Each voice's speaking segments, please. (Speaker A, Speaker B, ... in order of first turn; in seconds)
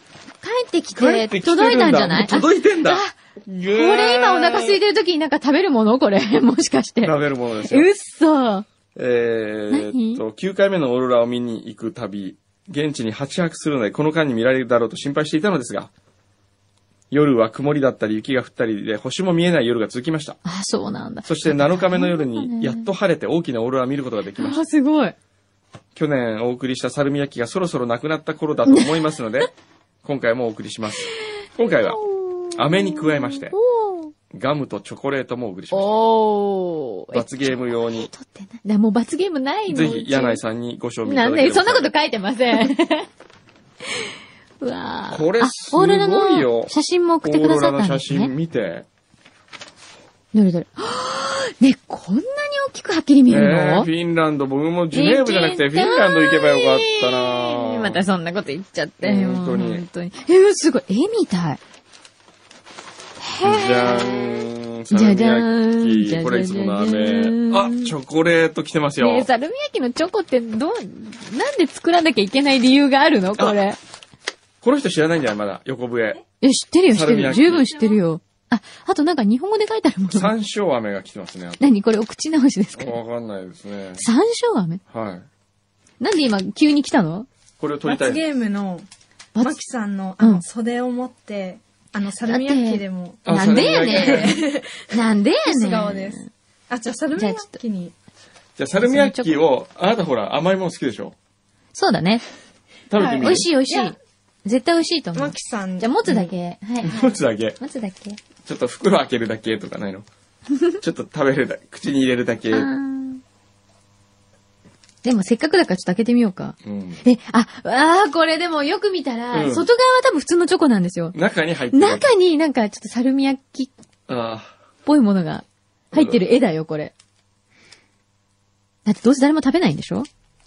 Speaker A: 0.4-3.1, 3.7-8.7, 9.7-10.2, 20.4-22.9, 24.4-25.1, 28.7-29.0, 31.7-34.1, 35.7-40.4, 41.0-43.1, 43.9-48.3, 50.3-53.9, 54.9-61.6, 63.2-67.9, 69.0-73.8, 76.4-80.3, 81.6-83.0, 84.0-84.8, 86.0-87.3, 89.3-89.6, 92.3-96.3, 97.2-97.5, 98.8-99.4, 101.8-102.2, 103.2-107.0, 107.6-108.2, 112.5-113.2, 115.0-121.2, 121.7-123.7, 124.8-126.9, 128.9-130.1
Speaker B: 0.9-4.8, 7.0-7.9, 8.9-15.9, 17.1-20.4, 21.2-24.6, 25.9-29.5, 30.0-32.0, 32.5-33.6, 34.3-36.0, 37.1-38.1, 39.7-41.9, 45.1-46.7, 47.2-48.9, 53.3-58.0, 59.0-59.9, 63.4-69.3, 74.6-76.2, 76.9-78.0, 80.1-81.6, 82.8-84.0, 84.9-85.3, 87.6-88.2, 93.2-94.4, 98.6-101.2, 102.9-103.5, 106.8-107.6, 108.4-110.0, 110.8-112.7, 116.6-117.0, 119.3-119.7, 121.1-122.1, 124.1-124.6, 125.9-126.2
Speaker C: 87.8-88.9, 89.4-94.9, 95.5-97.9, 103.0-103.9, 105.2-106.3